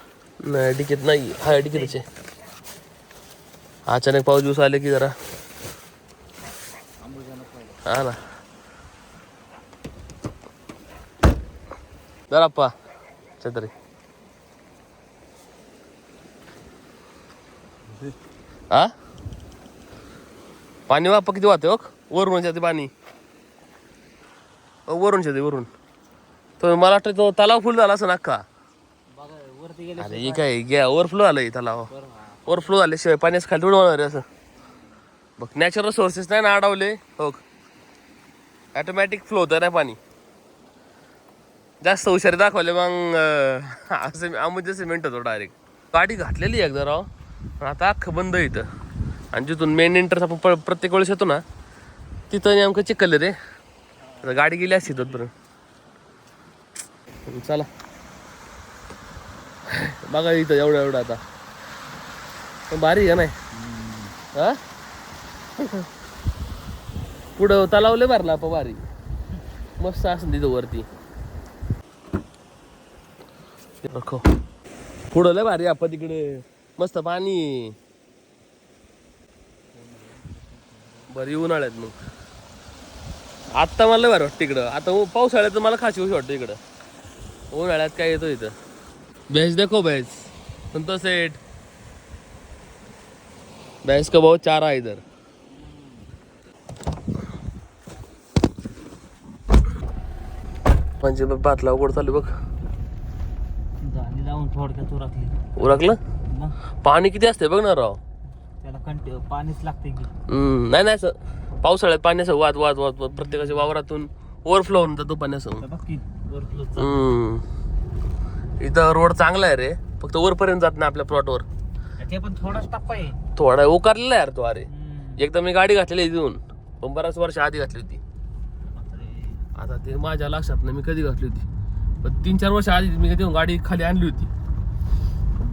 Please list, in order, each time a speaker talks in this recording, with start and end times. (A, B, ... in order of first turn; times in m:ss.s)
0:00.4-0:02.0 A
0:01.6-0:02.0 B
0:03.9-0:05.1 A
0:07.0-0:07.8 B
0:07.8-0:08.2 A
0:12.3-0:12.7 A
0:13.4-0:13.7 A
0:20.9-0:22.9 A
0:24.9-0:25.7 A
0:26.6-0:28.4 A
0:29.1-0:30.5 B
0:30.0-0:31.9 A
0:31.9-0:32.7 B
0:32.5-0:34.2 A
0:35.4-0:37.4 A
0:38.7-0:40.0 A
0:41.8-0:47.1 A
0:47.6-0:48.6 A
0:49.3-0:51.4 A
0:52.3-0:53.3 A
0:54.2-0:55.3 A
0:57.3-0:57.7 A
0:59.7-1:01.2 A
1:02.7-1:03.3 A
1:03.6-1:04.1 B
1:04.3-1:04.6 A
1:05.6-1:05.8 A
1:07.4-1:08.8 A
1:09.8-1:10.9 A
1:13.8-1:14.2 A
1:15.1-1:17.7 A
1:21.1-1:21.9 A
1:23.6-1:26.6 A
1:27.5-1:28.5 A
1:29.3-1:31.4 A
1:33.8-1:35.0 A
1:41.0-1:42.3 A
1:43.8-1:46.5 B
1:45.6-1:46.0 A
1:46.8-1:48.0 A
1:48.6-1:50.1 B
1:50.3-1:55.6 A
1:53.1-1:53.7 B
1:55.6-1:57.1 B
1:56.8-1:57.4 A
1:58.6-2:01.4 A
2:02.0-2:03.2 B
2:03.4-2:08.0 A
2:04.7-2:05.2 B
2:08.7-2:09.5 B
2:09.6-2:11.4 A
2:12.0-2:14.3 A